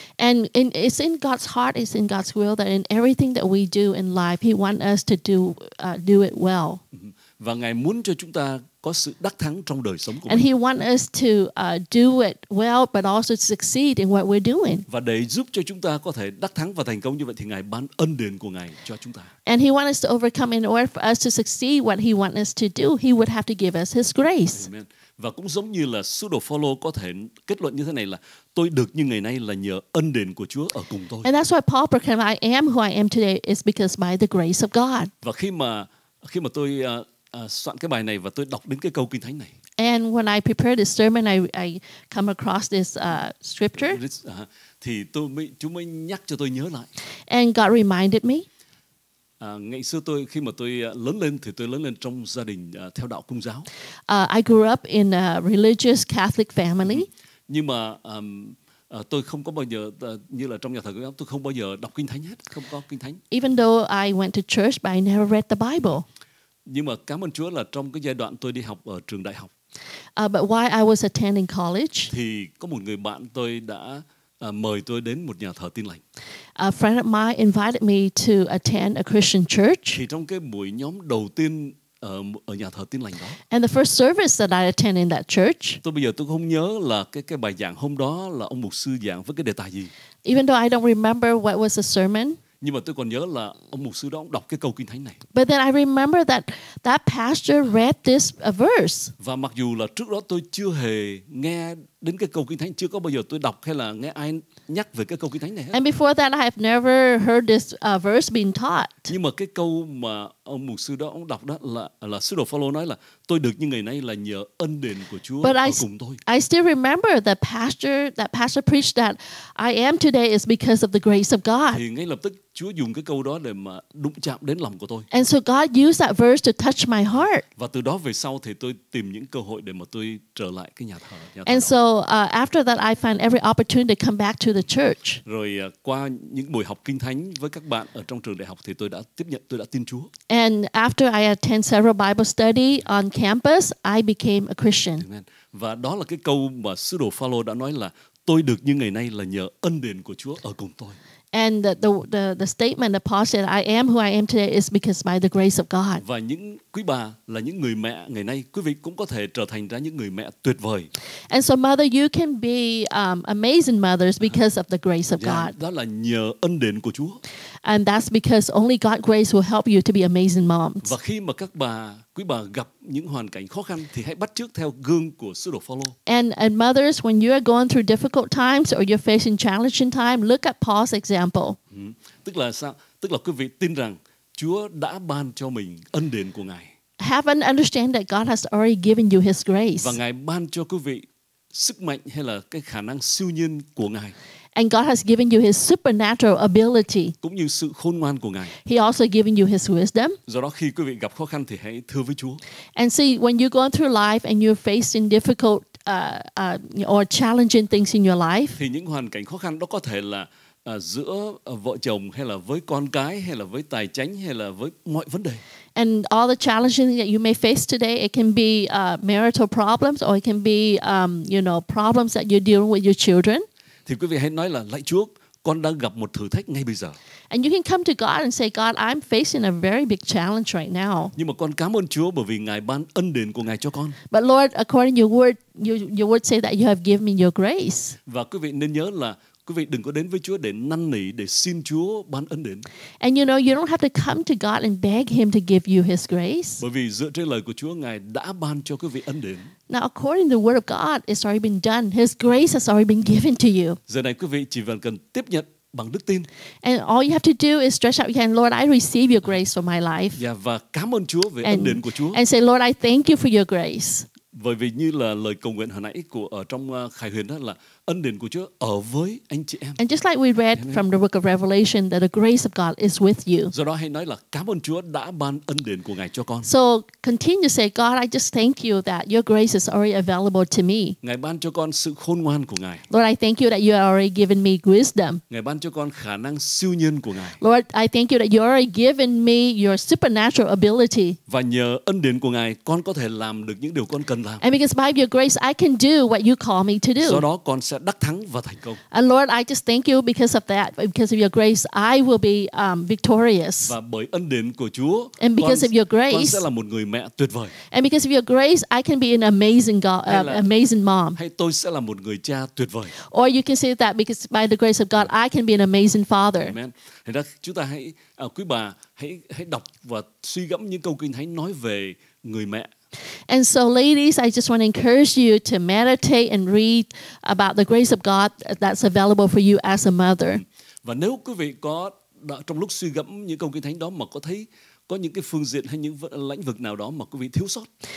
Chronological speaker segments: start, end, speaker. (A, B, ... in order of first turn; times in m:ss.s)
0:00.2-0:06.8 A
0:06.9-0:10.4 B
0:10.3-0:14.8 A
0:14.9-0:19.3 B
0:19.4-0:24.7 A
0:24.5-0:31.3 B
0:31.2-0:35.1 A
0:35.2-0:39.5 B
0:39.8-0:44.0 A
0:43.8-0:46.9 B
0:47.3-0:48.4 A
0:49.4-0:53.7 B
0:54.1-0:57.1 A
0:56.9-1:03.2 B
1:03.3-1:06.0 A
1:06.6-1:09.5 B
1:10.2-1:12.1 A
1:12.1-1:16.0 B
1:16.6-1:20.0 A
1:19.9-1:23.4 B
1:23.5-1:25.8 A
1:25.8-1:29.9 B
1:30.2-1:32.4 A
1:32.6-1:35.2 B
1:35.3-1:39.1 A
1:39.2-1:45.8 B
1:45.7-1:49.1 A
1:49.1-1:56.2 B
1:55.4-2:01.8 A
2:01.7-2:05.1 B
2:05.1-2:07.4 A
2:07.6-2:11.7 B
2:11.4-2:15.2 A
2:15.2-2:20.1 B
2:20.3-2:25.0 A
2:25.0-2:31.0 B
2:31.3-2:36.0 A
2:36.0-2:40.9 B
2:41.3-2:45.5 A
2:45.1-2:47.2 B
2:47.6-2:50.9 A
2:50.8-2:55.9 B
2:56.0-3:01.6 A
3:01.7-3:06.7 B
3:07.0-3:10.0 A
3:09.8-3:14.1 B
3:14.5-3:17.1 A
3:17.2-3:18.5 B
3:18.6-3:20.2 A
3:20.2-3:22.4 B
3:22.8-3:28.6 A
3:28.5-3:35.4 B
3:35.7-3:43.4 A
3:43.8-3:47.0 B
3:47.3-3:51.1 A
3:51.1-3:54.0 B
3:54.1-3:58.0 A
3:58.1-4:02.7 B
4:03.0-4:06.6 A
4:06.6-4:09.5 B
4:09.7-4:13.8 A
4:13.9-4:16.3 B
4:16.6-4:20.2 A
4:20.1-4:22.2 B
4:21.4-4:24.1 A
4:24.3-4:29.8 B
4:29.8-4:33.5 A
4:30.6-4:30.8 B
4:33.5-4:36.5 B
4:36.4-4:41.0 A
4:41.0-4:42.8 B
4:42.9-4:45.2 A
4:45.3-4:47.4 B
4:47.4-4:51.2 A
4:51.3-4:54.4 B
4:54.4-4:57.2 A
4:57.0-4:58.8 B
4:58.9-5:03.7 A
5:03.6-5:07.6 B
5:05.2-5:06.4 A
5:07.7-5:11.2 A
5:10.0-5:10.4 B
5:11.2-5:13.0 B
5:13.0-5:16.5 A
5:16.4-5:22.7 B
5:23.3-5:30.4 A
5:30.8-5:37.7 B